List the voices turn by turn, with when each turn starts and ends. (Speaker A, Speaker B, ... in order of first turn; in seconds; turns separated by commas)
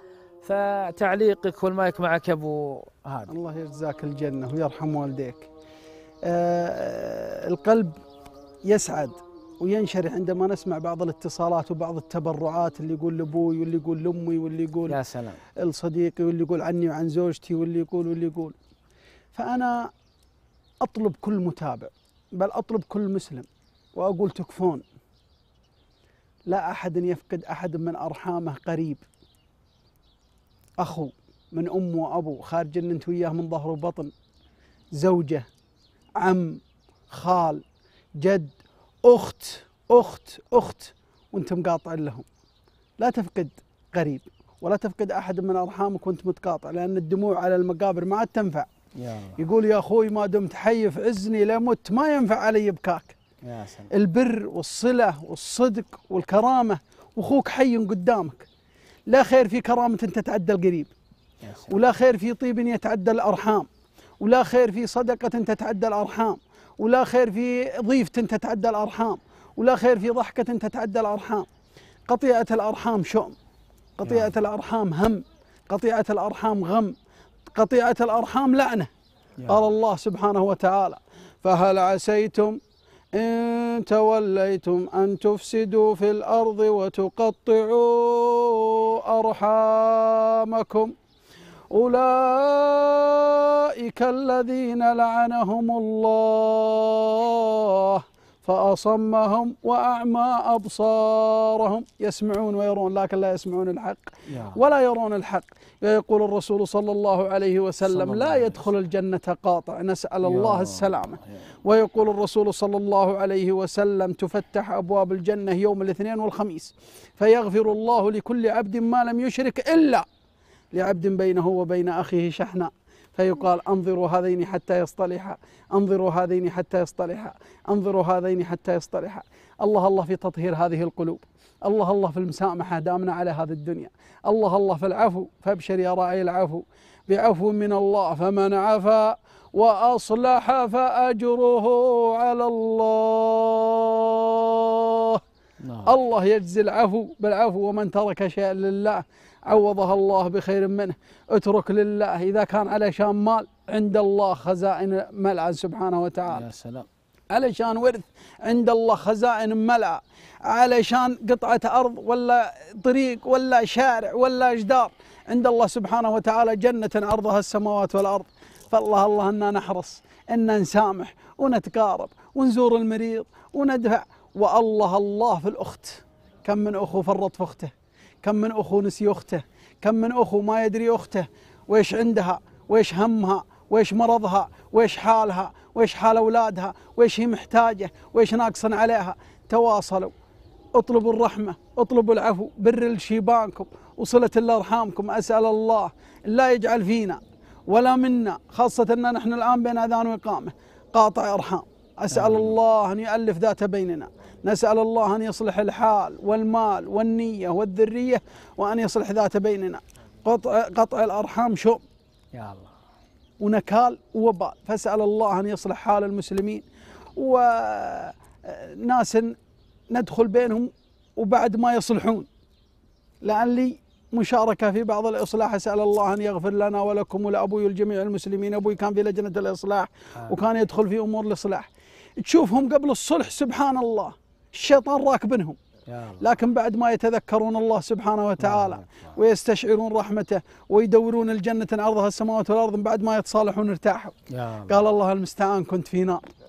Speaker A: 0.4-3.3, Speaker B: 3.3-5.5, Speaker B: 6.2-7.9, Speaker B: 8.7-15.0, Speaker A: 14.9-15.4, Speaker B: 15.6-18.5, Speaker B: 19.3-19.9, Speaker B: 20.8-24.8, Speaker B: 26.5-29.0, Speaker B: 30.8-34.1, Speaker B: 34.9-35.5, Speaker B: 36.2-37.6, Speaker B: 38.2-42.2, Speaker B: 43.0-48.7, Speaker A: 49.0-49.4, Speaker B: 49.4-53.2, Speaker A: 53.4-53.9, Speaker B: 53.9-58.5, Speaker B: 59.1-60.9, Speaker A: 61.4-61.8, Speaker B: 61.7-63.7, Speaker B: 64.2-71.5, Speaker B: 72.1-73.3, Speaker B: 74.0-76.9, Speaker A: 74.0-74.3, Speaker B: 77.5-78.9, Speaker A: 79.4-79.7, Speaker B: 79.5-82.6, Speaker B: 83.1-90.9, Speaker B: 91.7-120.0, Speaker A: 104.3-104.6, Speaker A: 107.8-108.6, Speaker A: 110.2-111.4, Speaker B: 120.7-145.2, Speaker A: 145.6-145.9, Speaker B: 145.8-156.4, Speaker A: 156.3-156.8, Speaker B: 157.3-177.7, Speaker B: 178.2-190.1, Speaker B: 190.7-211.8, Speaker A: 202.1-202.5, Speaker A: 212.3-212.7, Speaker B: 213.4-216.6, Speaker B: 217.2-219.3, Speaker B: 219.9-222.3, Speaker B: 223.2-231.7, Speaker B: 232.2-235.6, Speaker A: 235.9-236.2, Speaker B: 236.2-244.1, Speaker A: 238.4-239.1, Speaker A: 244.3-244.8, Speaker B: 244.7-246.2